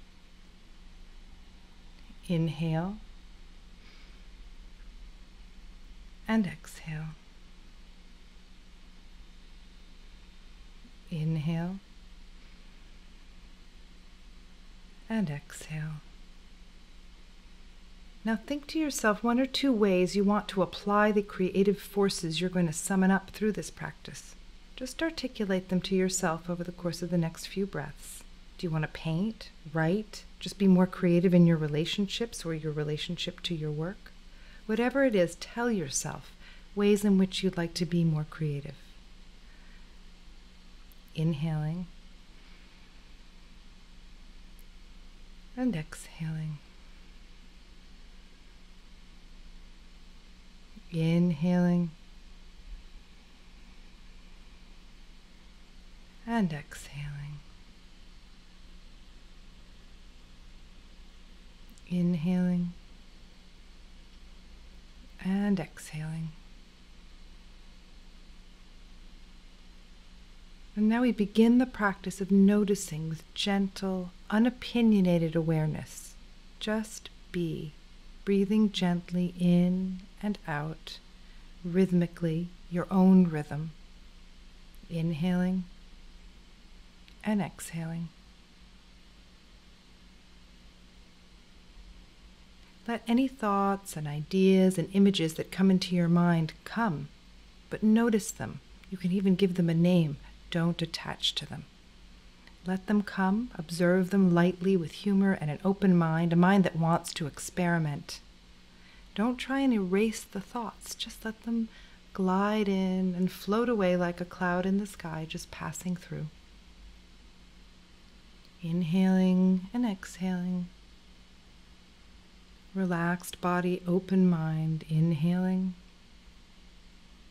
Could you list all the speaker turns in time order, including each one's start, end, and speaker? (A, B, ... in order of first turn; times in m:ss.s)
0:02.2-0:03.0 A
0:06.3-0:07.2 A
0:11.1-0:11.8 A
0:15.1-0:16.0 A
0:18.2-0:34.1 A
0:34.7-0:39.0 A
0:41.1-0:41.9 A
0:45.6-0:46.6 A
0:50.9-0:51.9 A
0:56.2-0:57.4 A
1:01.9-1:02.8 A
1:05.2-1:06.4 A
1:10.7-1:21.0 A
1:21.6-1:23.8 A
1:24.9-1:25.7 A
1:27.2-1:28.1 A
1:32.8-1:37.1 A
1:37.7-1:41.7 A
1:42.6-1:48.2 A
1:49.1-1:56.3 A
1:58.6-2:00.7 A
2:02.7-2:05.8 A